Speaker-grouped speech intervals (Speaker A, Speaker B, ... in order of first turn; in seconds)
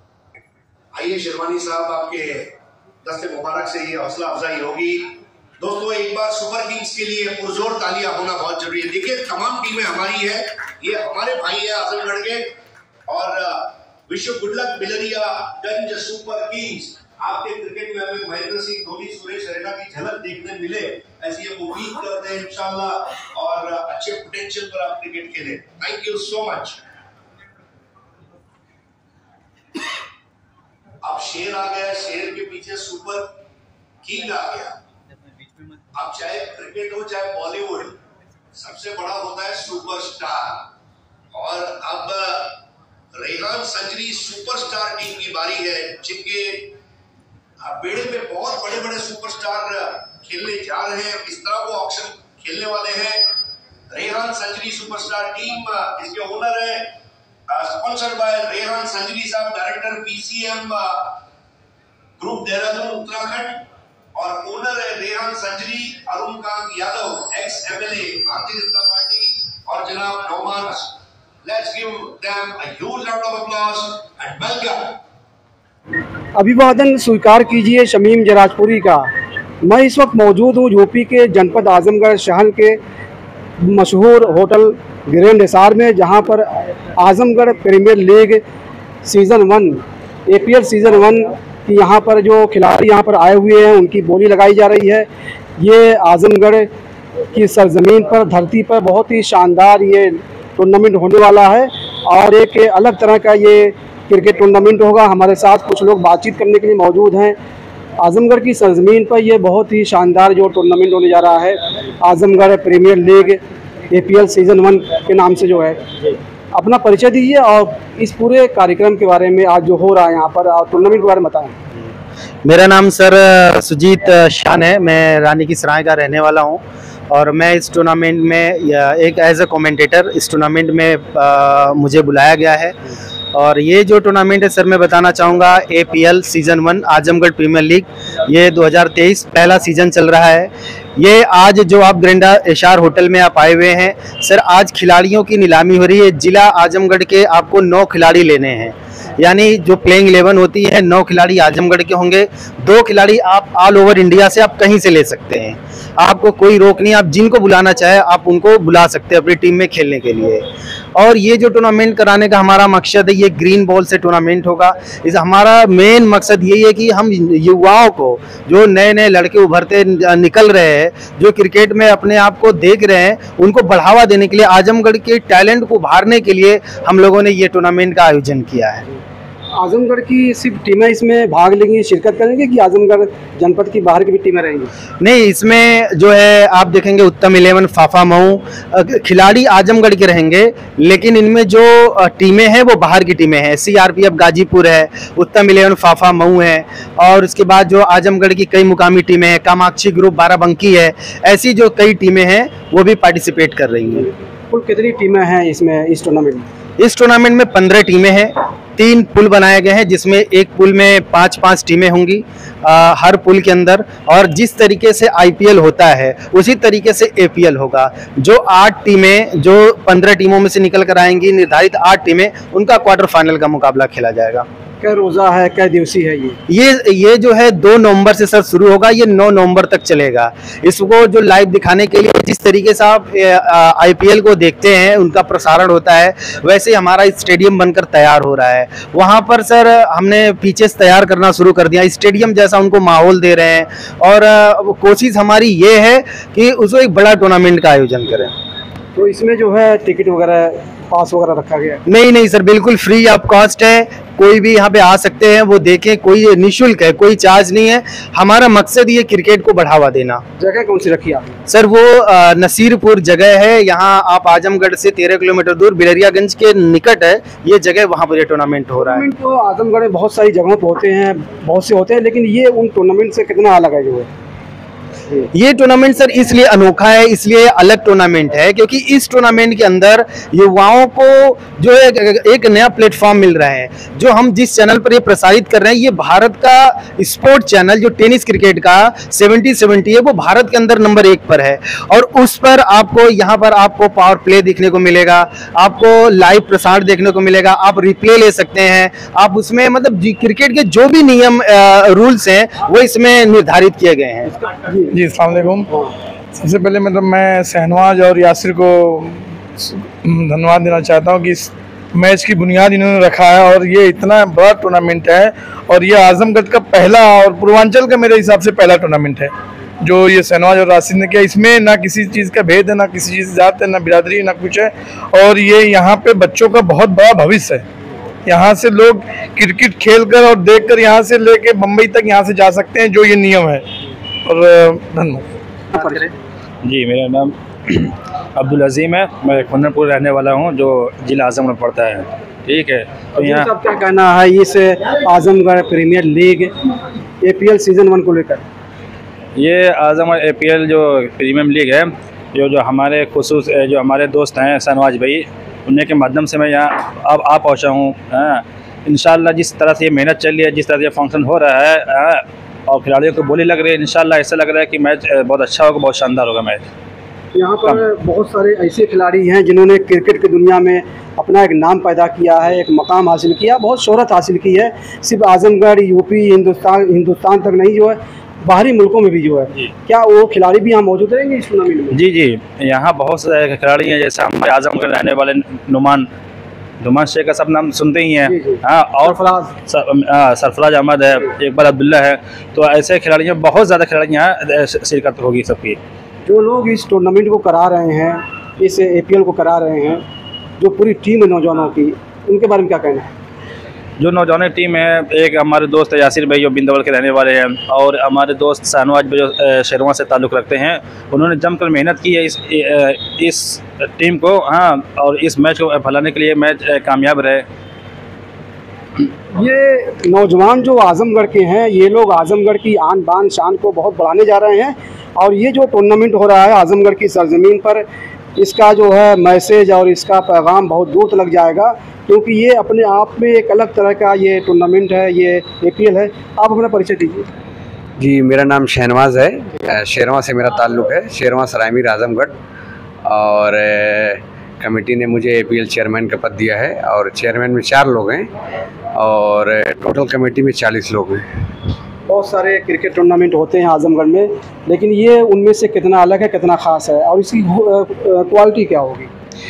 Speaker A: 0.9-12.5, 13.1-26.8, 31.0-33.4, 34.0-34.8, 35.9-38.0, 38.5-40.7, 41.3-42.6, 43.1-46.8, 47.6-53.2, 53.9-56.9, 57.5-61.2, 62.2-75.0
Speaker B: 76.3-79.1, 79.6-82.8, 83.6-88.4, 89.0-95.1, 95.6-96.7, 97.3-107.4, 108.0-115.8, 116.5-121.5, 179.6-184.7, 204.5-206.5, 224.8-226.4, 248.9-251.8, 260.4-261.4, 268.8-274.1, 304.6-304.9, 335.7-336.1, 343.1-346.5, 347.2-348.4, 367.3-382.0, 388.2-389.5, 396.2-400.0, 400.6-403.1, 419.3-427.8, 428.4-437.3, 452.1-459.1
Speaker C: 122.4-132.8, 133.3-178.8, 185.0-204.1, 206.8-224.4, 226.5-248.3, 251.8-260.2, 261.5-269.1, 275.3-304.3
Speaker D: 304.9-305.7, 306.4-319.3, 319.8-327.6, 328.2-333.6, 334.2-335.3
Speaker E: 336.6-343.5, 349.4-366.6, 381.9-386.1, 386.8-395.8, 404.0-417.4
Speaker F: 438.0-442.3, 443.0-448.3, 448.9-451.3